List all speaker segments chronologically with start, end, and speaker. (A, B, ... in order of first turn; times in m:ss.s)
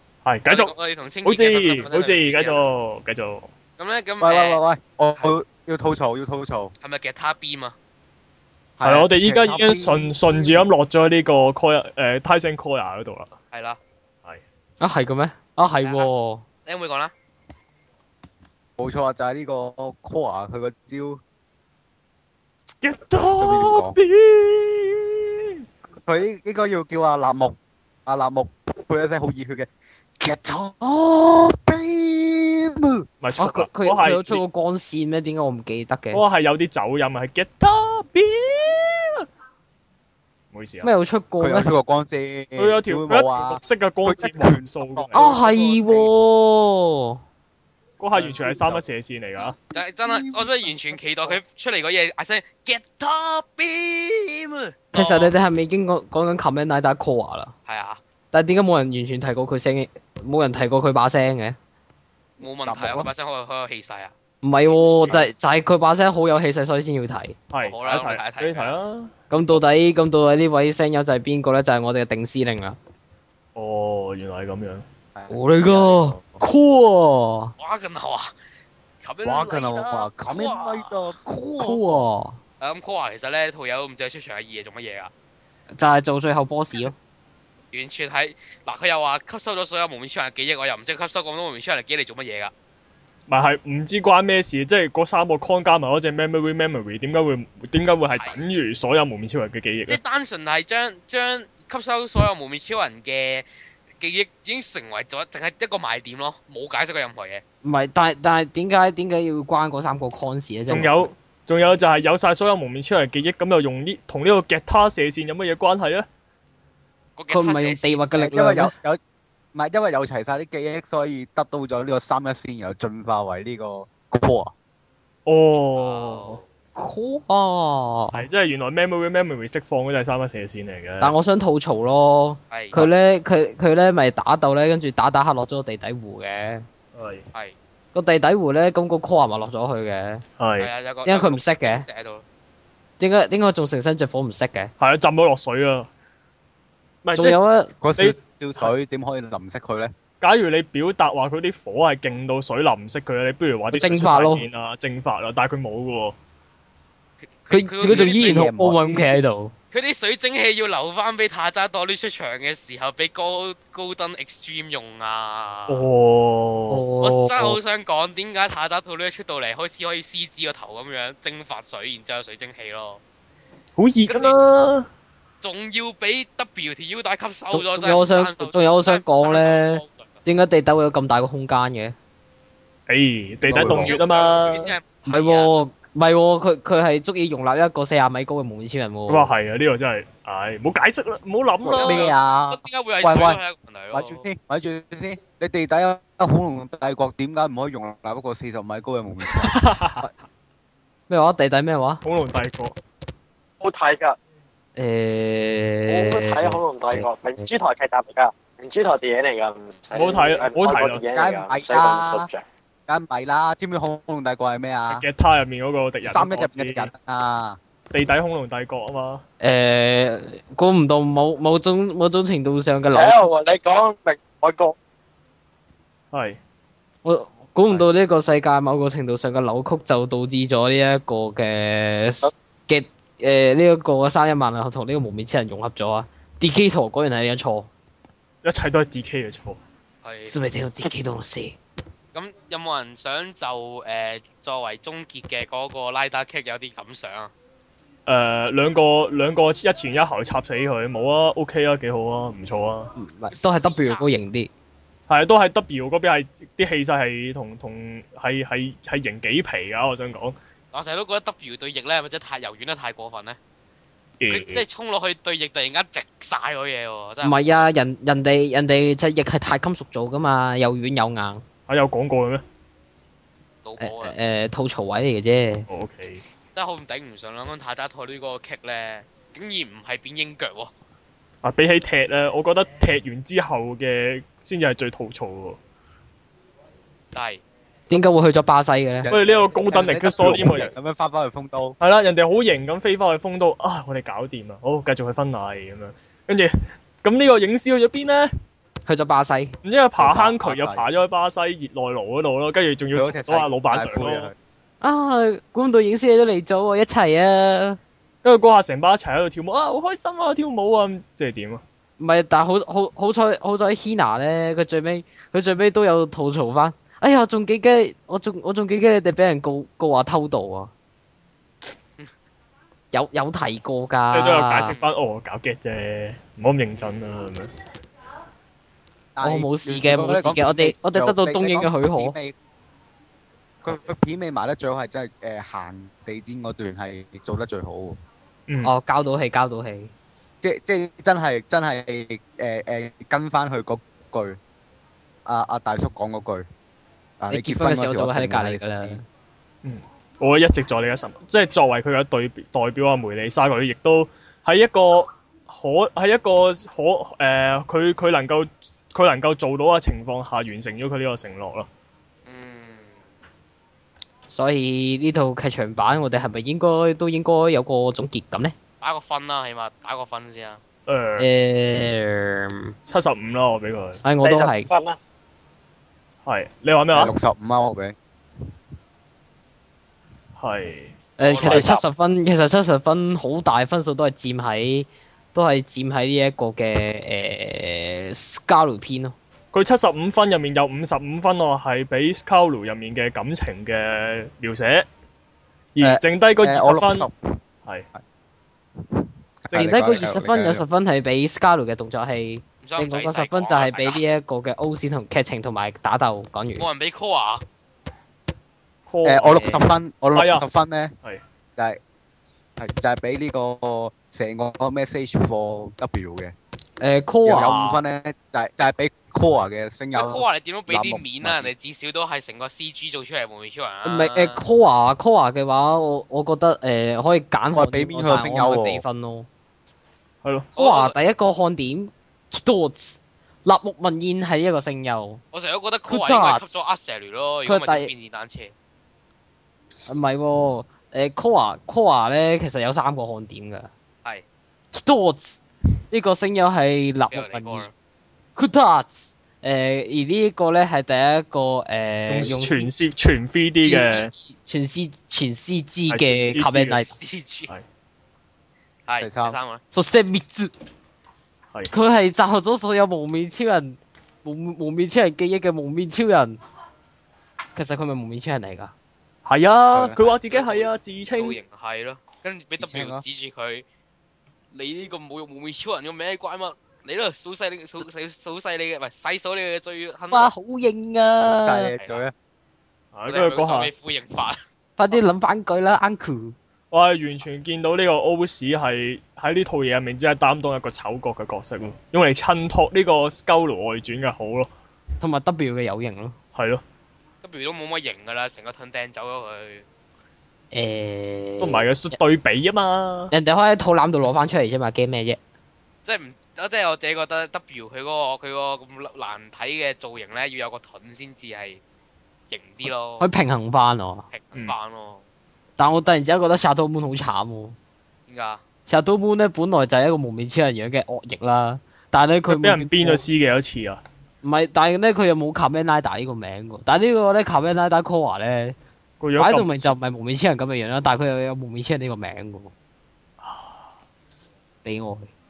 0:00.2-0:00.7 A
0:00.5-0:02.6 B
0:01.2-0:03.5 A
0:03.8-0:04.6 B
0:04.2-0:06.7 C
0:06.8-0:07.8 B
0:08.8-0:10.6 C
0:08.8-0:13.3 A
0:13.5-0:13.8 B
0:14.8-0:16.4 D
0:15.8-0:16.1 B
0:16.7-0:17.1 B
0:18.8-0:21.2 C
0:22.8-0:25.5 A
0:23.4-0:24.0 C
0:26.0-0:33.1 C
0:33.2-0:34.4 A
0:33.4-0:36.2 D
0:36.1-0:39.2 A
0:40.5-0:40.9 A
0:40.8-0:41.7 D
0:41.4-0:46.1 C
0:42.6-0:45.4 A
0:45.1-0:47.2 D
0:48.0-0:49.6 A
0:48.1-0:48.8 C
0:49.7-0:55.3 B
0:50.0-0:50.7 C
0:54.9-0:57.5 D
0:57.7-0:58.0 B
0:58.3-1:01.6 D
1:02.4-1:04.1 B
1:02.4-1:03.1 C
1:04.4-1:07.4 D
1:04.7-1:05.2 B
1:07.5-1:09.1 A
1:07.6-1:08.8 B
1:09.3-1:12.8 D
1:13.6-1:14.8 A
1:15.2-1:16.4 C
1:15.3-1:17.5 D
1:17.6-1:18.3 B
1:19.0-1:21.0 B
1:19.2-1:22.0 C
1:21.6-1:22.4 D
1:22.6-1:25.1 B
1:25.7-1:27.0 D
1:27.7-1:32.5 B
1:33.3-1:40.0 A
1:38.1-1:38.4 B
1:39.9-1:43.5 B
1:44.0-1:47.4 B
1:47.6-1:51.1 D
1:50.7-1:56.1 A
1:57.2-1:58.0 B
1:57.3-1:58.7 D
1:58.2-1:59.0 C
1:59.5-2:04.5 C
2:05.3-2:06.4 A
2:05.8-2:06.4 B
2:06.8-2:08.3 D
2:08.1-2:11.1 A
2:11.0-2:16.6 D
2:12.5-2:12.8 B
2:17.0-2:17.2 A
2:17.9-2:20.2 D
2:20.4-2:20.7 A
2:20.6-2:22.2 B
2:21.0-2:21.9 D
2:23.0-2:24.7 D
2:24.8-2:25.9 A
2:27.0-2:27.4 A
2:27.1-2:27.7 D
2:27.8-2:29.9 C
2:28.0-2:28.7 A
2:30.2-2:36.2 A
2:33.7-2:34.5 D
2:37.4-2:38.5 B
2:37.5-2:39.5 D
2:37.9-2:39.2 C
2:39.7-2:45.8 B
2:45.7-2:46.8 A
2:46.7-2:47.6 D
2:47.0-2:53.0 B
2:53.8-2:54.9 A
2:54.1-2:54.4 B
2:55.4-3:00.1 B
2:57.5-3:02.0 D
3:02.9-3:04.8 A
3:03.4-3:04.0 C
3:03.6-3:05.5 B
3:05.1-3:09.3 D
3:09.1-3:12.1 A
3:11.6-3:13.4 C
3:11.8-3:14.2 B
3:13.9-3:20.2 C
3:19.4-3:20.0 A
3:21.1-3:22.0 D
3:22.0-3:22.8 A
3:23.6-3:24.2 E
3:24.8-3:27.5 D
3:25.9-3:32.4 E
3:29.9-3:31.0 A
3:31.1-3:32.3 C
3:32.9-3:35.0 C
3:34.9-3:36.9 A
3:36.1-3:37.6 C
3:37.9-3:39.2 A
3:39.4-3:43.2 D
3:42.9-3:44.8 E
3:46.1-3:46.4 A
3:47.0-3:57.7 D
3:58.4-3:59.6 A
4:00.0-4:00.4 B
4:00.3-4:01.6 D
4:02.1-4:07.3 B
4:08.1-4:12.9 A
4:13.0-4:14.5 D
4:13.3-4:14.1 B
4:15.1-4:20.4 A
4:20.7-4:23.4 B
4:24.2-4:24.6 A
4:24.3-4:27.4 B
4:27.2-4:31.4 D
4:31.7-4:32.4 A
4:33.6-4:34.2 B
4:33.8-4:35.7 D
4:35.7-4:36.2 A
4:36.6-4:40.7 B
4:41.4-4:45.6 A
4:47.1-4:47.4 B
4:47.9-4:49.1 D
4:49.0-4:51.8 C
4:49.1-4:50.7 A
4:51.8-4:58.3 A
4:58.9-4:59.6 D
4:59.6-5:04.3 A
5:00.0-5:00.9 C
5:02.9-5:04.4 C
5:04.8-5:07.8 D
5:08.2-5:11.6 A
5:12.0-5:20.7 D
5:22.9-5:24.8 D
5:24.1-5:27.5 A
5:29.2-5:32.4 C
5:29.2-5:32.2 D
5:33.6-5:38.0 C
5:38.5-5:38.7 A
5:38.6-5:39.9 D
5:40.4-5:44.4 C
5:45.3-5:46.5 C
5:47.2-5:49.0 C
5:47.3-5:49.0 D
5:49.6-6:01.7 A
6:02.3-6:03.0 B
6:04.3-6:08.5 D
6:08.8-6:10.6 B
6:10.9-6:11.3 A
6:11.2-6:12.7 D
6:12.9-6:14.0 A
6:14.0-6:14.7 D
6:14.2-6:15.0 E
6:16.3-6:17.1 A
6:16.9-6:18.0 C
6:20.4-6:21.7 A
6:21.2-6:29.2 D
6:21.2-6:21.8 B
6:29.5-6:34.9 A
6:35.8-6:37.1 A
6:35.8-6:37.4 C
6:38.8-6:40.6 C
6:39.5-6:46.7 D
6:42.6-6:44.0 B
6:46.6-6:47.4 B
6:48.9-6:49.6 A
6:49.0-6:50.9 C
6:49.3-6:49.6 D
6:50.1-6:50.4 A
6:52.6-6:56.3 C
6:56.8-6:57.8 D
6:57.2-7:01.5 C
7:00.0-7:04.4 B
7:03.8-7:09.3 D
7:07.5-7:08.8 C
7:10.2-7:10.5 A
7:10.6-7:15.2 D
7:10.6-7:11.0 B
7:15.3-7:18.5 B
7:15.9-7:16.6 D
7:17.5-7:17.9 D
7:19.9-7:23.7 D
7:24.7-7:27.7 D
7:27.1-7:27.7 B
7:28.4-7:32.7 D
7:32.1-7:34.1 A
7:33.6-7:34.3 B
7:33.6-7:37.0 D
7:35.9-7:36.8 A
7:36.7-7:37.5 B
7:38.9-7:39.6 B
7:39.0-7:39.4 C
7:39.7-7:40.5 D
7:41.7-7:46.4 D
7:47.6-7:48.7 D
7:49.3-7:51.4 A
7:49.7-7:50.1 C
7:50.3-7:53.6 B
7:52.6-7:53.0 C
7:54.5-8:00.3 B
8:00.1-8:01.7 D
8:01.3-8:02.1 C
8:01.8-8:02.0 B
8:02.9-8:03.7 A
8:03.1-8:04.4 B
8:04.8-8:06.4 D
8:06.7-8:14.5 A
8:15.0-8:16.2 D
8:16.4-8:16.6 A
8:17.2-8:19.7 B
8:20.5-8:21.7 D
8:21.4-8:23.1 A
8:23.1-8:25.2 D
8:25.8-8:31.6 B
8:32.3-8:33.1 B
8:33.0-8:34.1 D
8:34.1-8:35.0 B
8:35.6-8:37.6 D
8:38.1-8:38.4 B
8:38.7-8:43.0 D
8:42.3-8:43.8 A
8:44.2-8:48.6 D
8:49.0-8:49.8 A
8:49.2-8:52.5 D
8:53.2-8:53.6 A
8:54.6-8:55.1 D